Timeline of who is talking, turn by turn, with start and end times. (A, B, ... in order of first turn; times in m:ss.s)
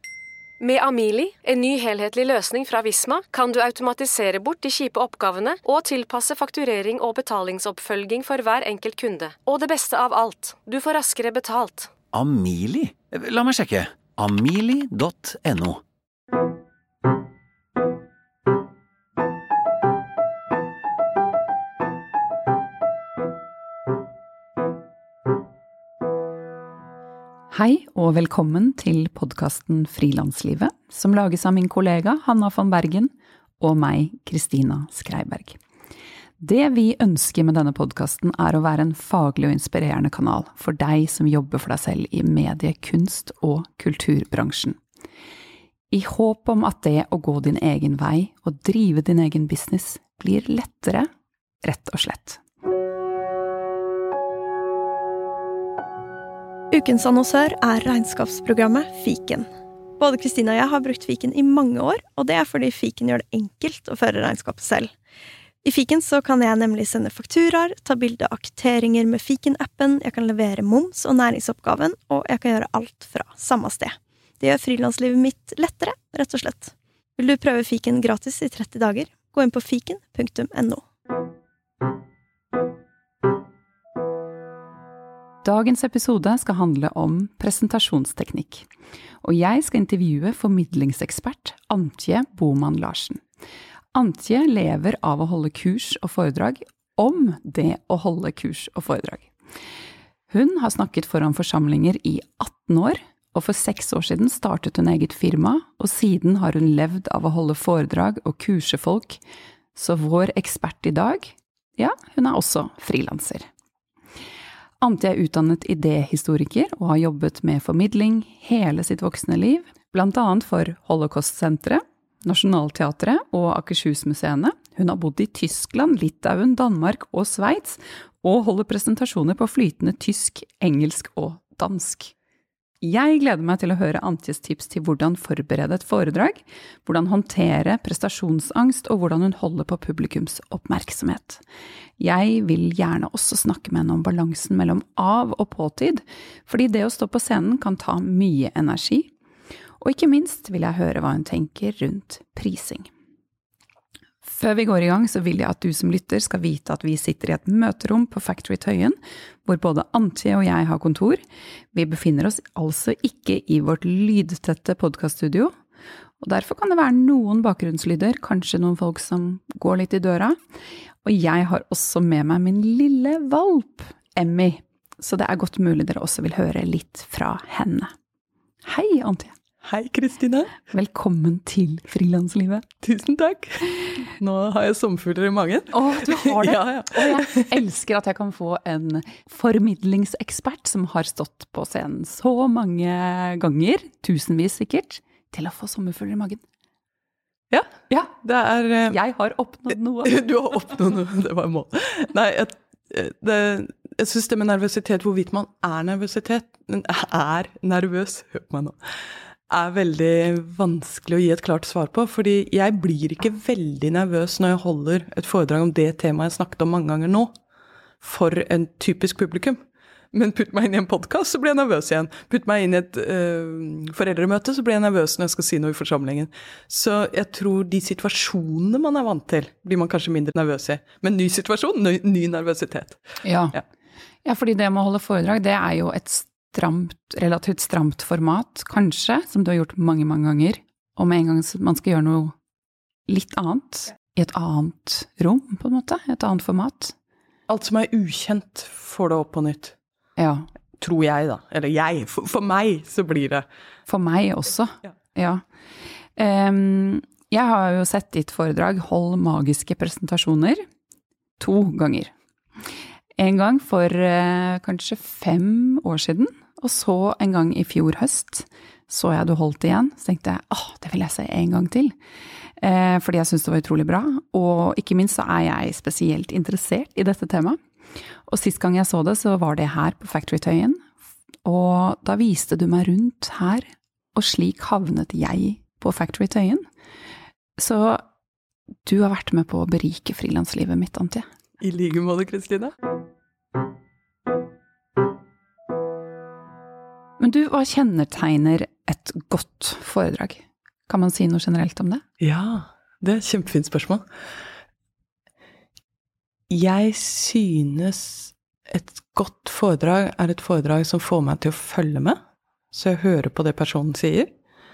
0:00.6-0:11.9 A
0:12.1-0:15.8 B
0:27.5-0:35.6 C
0:36.4-0:44.8 C
0:45.9-0:51.1 C
0:51.6-0:52.4 C
0:56.7-0:59.5 D
1:00.0-1:04.9 D
1:05.6-1:20.8 D
1:25.4-1:28.7 C
1:29.2-1:33.2 C
1:33.9-1:39.3 C
1:40.3-1:49.2 C
1:49.8-1:53.5 C
1:54.8-2:12.1 C
2:12.8-2:21.4 C
2:22.0-2:29.1 C
2:29.8-2:32.9 C
2:34.2-2:41.2 C
2:41.7-2:45.5 C
2:46.2-2:50.4 C
2:51.0-2:57.9 C
2:58.6-2:59.3 C
2:59.6-3:00.6 E
3:00.7-3:02.7 C
3:02.8-3:07.6 E
3:05.7-3:16.4 C
3:17.5-3:19.0 E
3:18.9-3:20.2 C
3:19.7-3:28.8 E
3:29.5-3:37.3 E
3:38.0-3:39.6 E
3:40.1-3:53.6 E
3:53.2-3:53.6 C
3:54.2-4:02.4 C
4:03.1-4:07.0 C
4:07.5-4:09.8 E
4:10.2-4:10.5 C
4:10.8-4:13.5 E
4:13.9-4:15.4 C
4:16.2-4:20.6 C
4:21.4-4:22.1 C
4:23.2-4:32.0 C
4:32.6-4:37.6 C
4:38.3-4:40.8 C
4:41.4-4:46.6 C
4:47.6-4:48.0 C
4:48.9-4:51.2 C
4:51.6-4:52.8 E
4:57.2-5:02.0 C
5:02.2-5:04.0 E
5:06.5-5:12.2 E
5:12.7-5:14.3 E